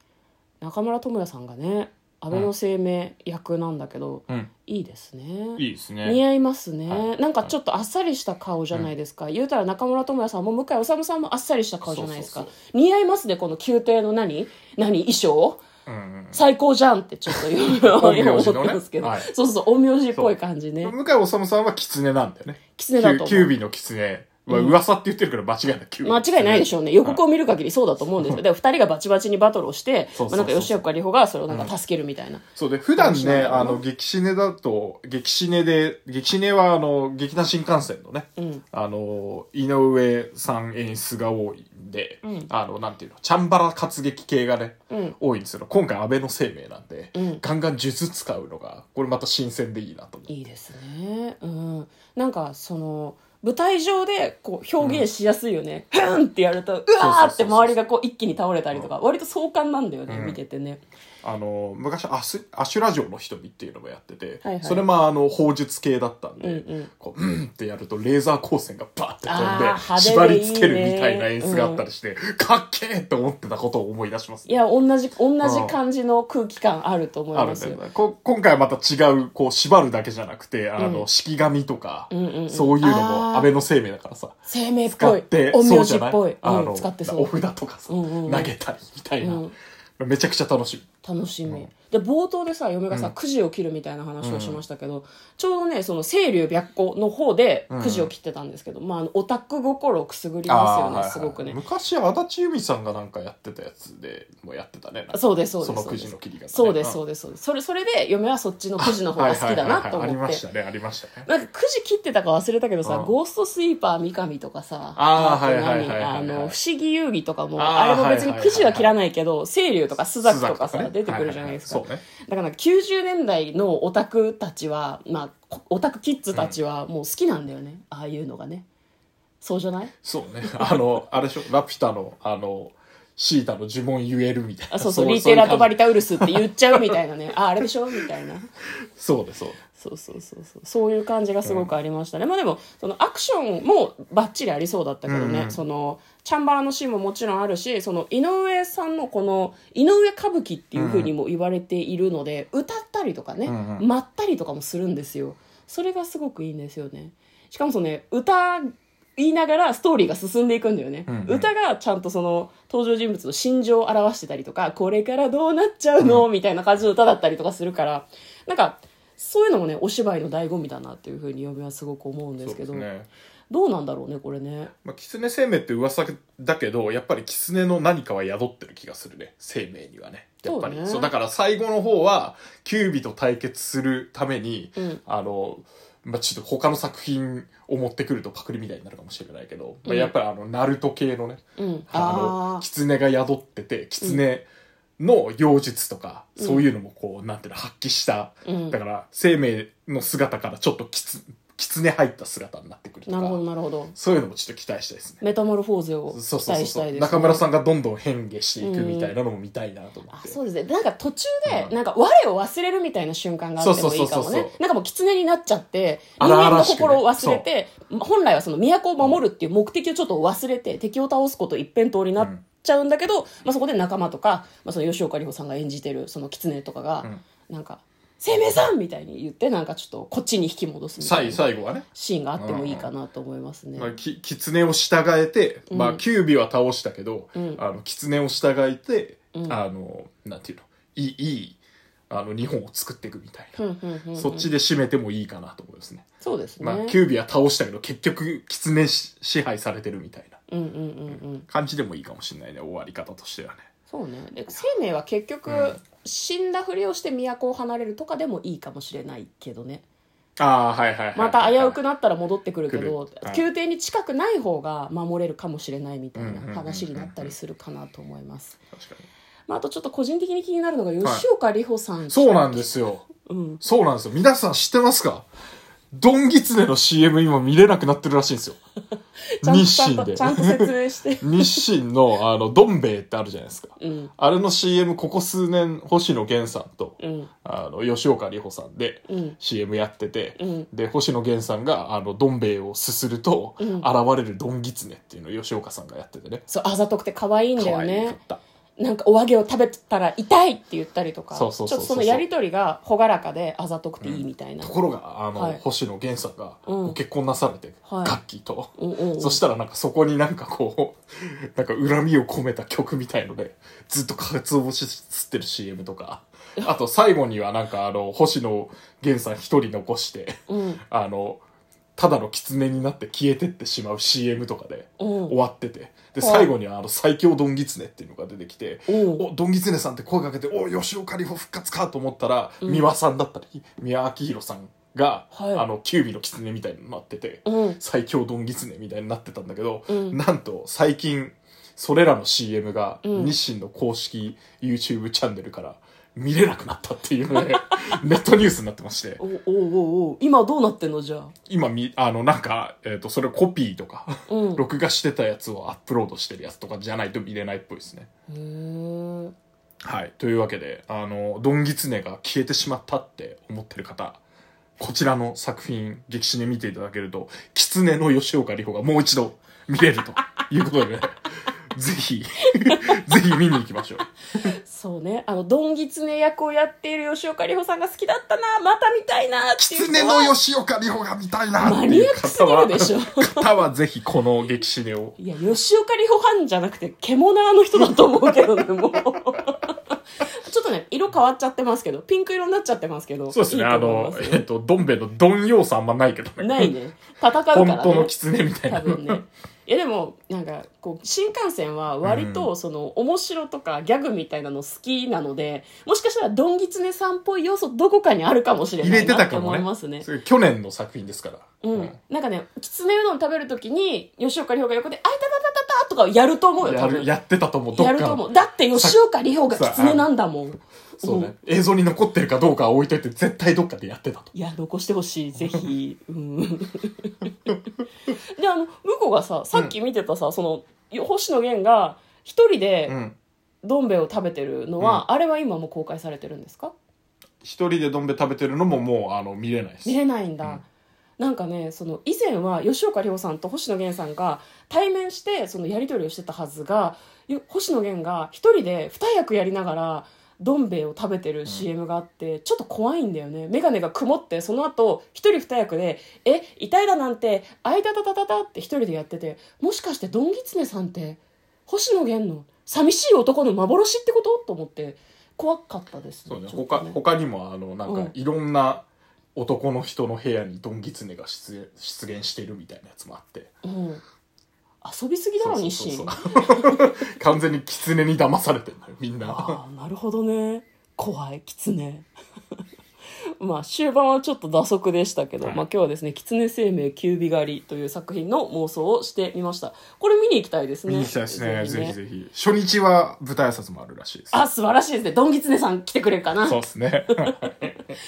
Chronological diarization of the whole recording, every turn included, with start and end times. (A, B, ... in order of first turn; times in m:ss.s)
0:00.6-0:15.6 A
0:05.6-0:06.2 B
0:11.8-0:12.5 B
0:15.8-0:16.4 B
0:16.3-0:20.9 A
0:17.3-0:19.3 B
0:20.1-0:27.2 B
0:22.8-0:23.5 A
0:24.5-0:24.8 A
0:26.0-0:32.4 A
0:30.2-0:30.8 B
0:32.5-0:50.3 B
0:33.0-0:33.8 A
0:38.4-0:38.6 A
0:42.2-0:42.5 A
0:44.9-0:45.2 A
0:47.1-0:47.4 A
0:50.3-1:00.8 A
0:54.8-0:55.0 B
0:56.9-0:57.7 B
1:00.1-1:00.4 B
1:01.2-1:14.6 B
1:04.4-1:04.8 A
1:06.4-1:06.9 A
1:09.3-1:11.8 A
1:14.5-1:17.8 A
1:15.4-1:15.8 B
1:17.3-1:29.5 B
1:20.8-1:21.0 A
1:22.1-1:23.5 A
1:24.5-1:27.3 A
1:27.9-1:28.5 A
1:29.2-1:29.5 A
1:30.0-1:30.9 B
1:31.0-1:41.6 A
1:32.9-1:33.2 B
1:34.2-1:34.6 B
1:37.7-1:38.1 B
1:40.5-1:47.0 B
1:45.1-1:50.4 A
1:48.8-1:51.3 B
1:51.3-2:08.7 A
1:52.8-1:53.1 B
1:55.0-1:56.5 B
1:57.6-1:58.9 B
2:00.2-2:02.0 B
2:09.4-2:09.9 A
2:10.0-2:16.5 B
2:14.7-2:18.5 A
2:19.0-2:19.6 B
2:19.8-2:52.9 A
2:21.4-2:21.7 B
2:25.1-2:25.6 B
2:30.7-2:31.1 B
2:33.4-2:33.8 B
2:41.1-2:41.5 B
2:46.0-2:46.3 B
2:52.4-2:53.1 B
2:53.5-2:54.7 A
2:54.8-3:14.5 B
3:00.4-3:01.1 A
3:09.8-3:10.1 A
3:11.6-3:12.6 A
3:15.0-3:23.4 B
3:16.4-3:16.6 A
3:18.4-3:18.8 A
3:23.1-3:23.9 A
3:24.0-3:25.2 B
3:25.2-3:27.4 A
3:26.1-3:30.4 B
3:28.6-3:29.1 A
3:30.1-3:53.9 A
3:31.5-3:31.8 B
3:33.6-3:34.5 B
3:36.2-3:37.5 B
3:42.2-3:42.4 B
3:51.0-3:52.9 B
3:53.8-4:03.6 B
3:55.7-3:56.0 A
3:57.3-3:57.6 A
4:03.6-4:04.5 A
4:04.1-4:06.0 B
4:06.2-4:07.0 A
4:06.6-4:10.4 B
4:10.5-4:11.5 A
4:11.1-4:13.6 B
4:13.9-4:19.8 A
4:15.5-4:15.8 B
4:20.4-4:21.8 B
4:21.1-4:28.6 A
4:22.7-4:23.4 B
4:26.1-4:27.3 B
4:28.7-4:29.1 B
4:29.5-4:32.7 A
4:32.1-4:33.1 B
4:33.2-4:33.6 A
4:33.6-4:35.3 B
4:35.9-4:38.6 B
4:39.4-4:41.6 A
4:39.4-4:56.4 B
4:43.8-4:44.1 A
4:47.0-4:47.3 A
4:49.1-4:49.4 A
4:50.4-4:50.7 A
4:53.6-4:53.9 A
4:56.5-4:58.2 A
4:57.6-4:58.4 B
4:58.8-5:04.7 A
5:01.3-5:02.2 B
5:04.0-5:20.3 B
5:05.4-5:05.6 A
5:06.6-5:07.0 A
5:07.8-5:08.2 A
5:08.8-5:09.4 A
5:20.5-5:20.8 A
5:20.9-5:21.4 B
5:22.0-5:49.2 B
5:25.0-5:25.4 A
5:26.2-5:26.5 A
5:28.9-5:29.2 A
5:32.6-5:32.9 A
5:35.3-5:35.6 A
5:37.5-5:37.8 A
5:39.9-5:40.2 A
5:43.0-5:43.3 A
5:47.4-5:47.8 A
5:49.2-5:51.3 A
5:51.5-5:58.1 B
5:54.3-5:54.6 A
5:58.3-5:59.3 A
5:59.8-6:04.2 B
6:04.8-6:11.2 B
6:11.7-6:14.0 B
6:12.7-6:12.9 A
6:14.5-6:20.4 A
6:19.6-6:25.2 B
6:21.6-6:23.5 A
6:25.2-6:34.4 A
6:33.3-6:36.7 B
6:36.4-6:50.1 A
6:37.5-6:39.2 B
6:42.0-6:42.5 B
6:48.8-6:52.0 B
6:51.6-6:57.1 A
6:56.6-6:59.0 B
6:57.7-7:01.3 A
6:59.5-7:00.1 B
7:01.0-7:04.3 B
7:04.3-7:07.3 A
7:08.3-7:13.0 A
7:12.9-7:13.2 B
7:13.6-7:16.7 A
7:17.4-7:20.6 B
7:19.8-7:20.6 A
7:21.2-7:47.0 A
7:46.3-7:53.5 B
7:47.9-7:48.1 A
7:53.6-7:54.0 A
7:54.8-7:57.1 A
7:55.4-7:59.6 B
7:59.2-8:02.1 A
8:03.4-8:12.0 A
8:10.9-8:14.4 B
8:14.3-8:16.6 A
8:16.4-8:17.8 B